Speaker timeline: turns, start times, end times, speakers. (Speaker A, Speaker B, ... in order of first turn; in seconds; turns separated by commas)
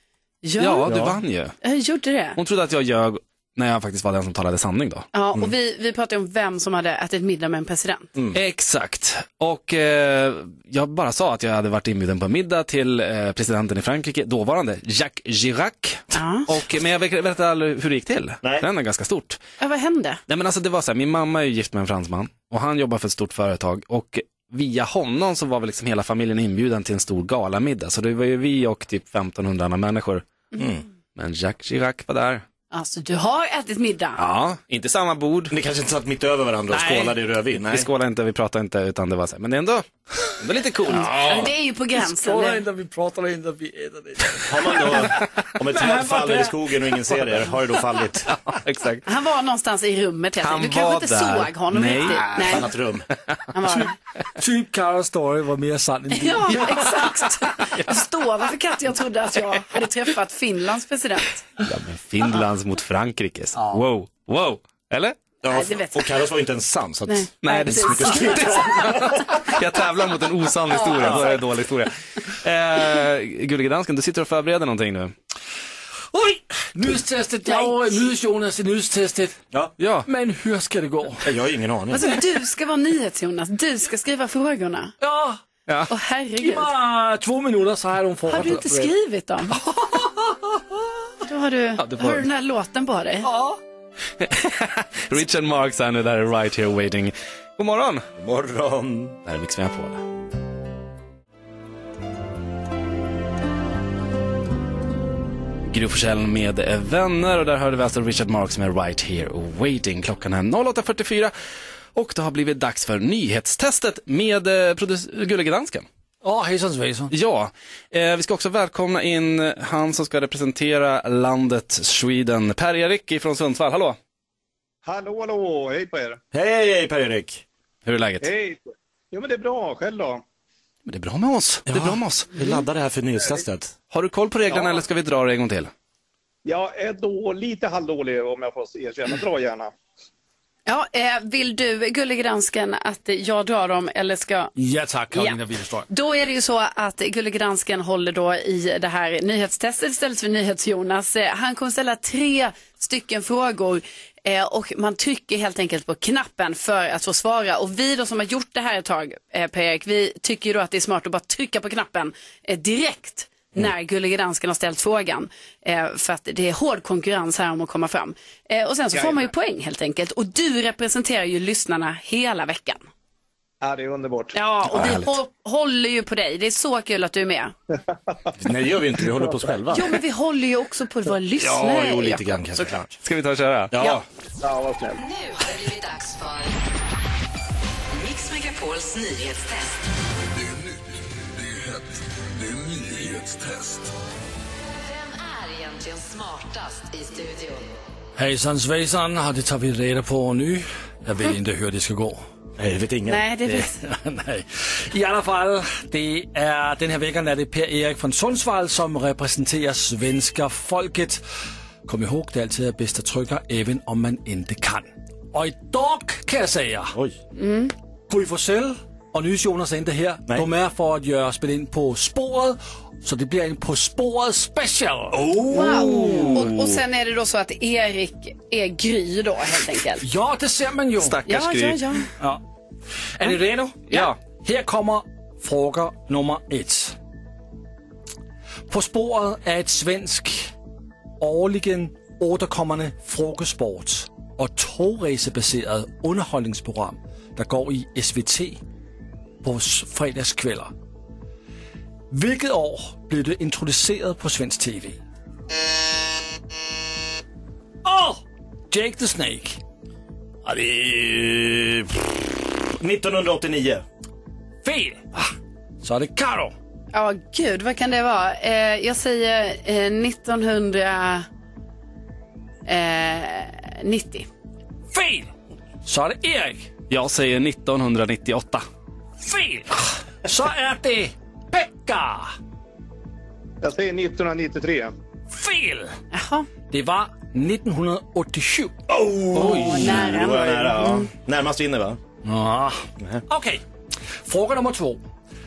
Speaker A: 0.4-0.9, Speaker B: 0.6-1.5, Speaker C: 0.8-1.2, Speaker A: 1.6-2.4, Speaker B: 2.4-5.1, Speaker A: 5.1-8.1, Speaker B: 8.3-19.4, Speaker A: 16.1-16.5, Speaker A: 19.6-20.2, Speaker B: 20.3-30.2, Speaker C: 30.6-30.8, Speaker B: 31.1-32.4, Speaker A: 32.7-34.2, Speaker B: 34.2-35.5, Speaker C: 35.5-37.9, Speaker B: 36.7-41.5, Speaker A: 40.9-42.6, Speaker D: 42.0-44.8, Speaker C: 44.5-48.3, Speaker D: 45.7-46.6, Speaker B: 48.4-49.0, Speaker A: 49.0-52.7, Speaker B: 50.4-52.4, Speaker C: 52.3-53.1, Speaker A: 53.5-53.9, Speaker D: 53.7-57.0, Speaker A: 56.1-61.5, Speaker B: 61.6-65.2, Speaker C: 65.4-69.3, Speaker A: 65.5-66.2, Speaker A: 67.1-68.6, Speaker B: 67.4-75.1, Speaker A: 70.7-71.4, Speaker C: 70.9-71.3, Speaker D: 76.1-79.4, Speaker A: 77.5-77.8, Speaker B: 79.8-80.0, Speaker D: 80.0-81.3, Speaker C: 81.2-82.1, Speaker A: 81.9-84.9, Speaker D: 85.0-85.4, Speaker A: 85.9-86.7, Speaker D: 86.4-88.9, Speaker A: 88.3-89.6, Speaker D: 89.7-90.3, Speaker A: 91.2-93.3, Speaker B: 91.8-92.2, Speaker D: 93.2-93.6, Speaker B: 94.2-98.0, Speaker C: 98.2-99.2, Speaker B: 99.2-100.0, Speaker B: 105.7-111.3, Speaker B: 111.9-115.8, Speaker D: 116.2-117.1, Speaker B: 117.1-124.0, Speaker E: 124.8-126.2, Speaker C: 126.3-127.4, Speaker B: 127.8-128.3, Speaker E: 128.2-130.2, Speaker B: 130.8-132.3, Speaker C: 131.7-133.7, Speaker B: 133.9-135.7, Speaker E: 134.5-134.8, Speaker E: 136.4-139.7, Speaker A: 140.7-144.5, Speaker D: 144.6-145.9, Speaker A: 145.1-145.4, Speaker A: 145.9-172.8, Speaker E: 168.9-169.2, Speaker E: 173.6-174.3, Speaker A: 174.3-177.5, Speaker C: 174.7-175.2, Speaker C: 178.4-180.0, Speaker A: 179.7-182.2, Speaker C: 181.4-182.9, Speaker B: 183.0-183.7, Speaker C: 183.7-184.0, Speaker E: 184.4-185.0, Speaker F: 185.0-186.6, Speaker F: 187.9-189.8, Speaker F: 194.6-197.7, Speaker D: 198.2-202.2, Speaker C: 202.6-203.2, Speaker A: 203.1-203.8, Speaker D: 203.5-211.2, Speaker D: 211.8-216.9, Speaker A: 217.3-217.7, Speaker D: 218.1-226.4, Speaker C: 225.1-226.3, Speaker A: 225.5-230.0, Speaker D: 230.0-231.2, Speaker B: 231.0-232.0, Speaker A: 231.2-232.1, Speaker D: 233.1-236.9, Speaker D: 238.7-240.5, Speaker D: 241.2-248.6, Speaker D: 249.4-250.7, Speaker D: 252.1-255.0, Speaker D: 257.8-259.6, Speaker C: 260.4-262.1, Speaker C: 262.7-263.8, Speaker D: 264.6-266.5, Speaker A: 266.9-271.2, Speaker A: 272.6-274.3, Speaker D: 274.9-275.3, Speaker D: 275.8-276.7, Speaker B: 276.9-278.6, Speaker D: 279.2-282.3, Speaker E: 283.6-284.9, Speaker D: 285.3-285.9, Speaker A: 286.1-286.5, Speaker D: 286.7-288.8, Speaker C: 288.9-292.0, Speaker D: 289.3-290.0, Speaker A: 289.6-291.1, Speaker D: 292.2-293.6, Speaker D: 294.2-295.0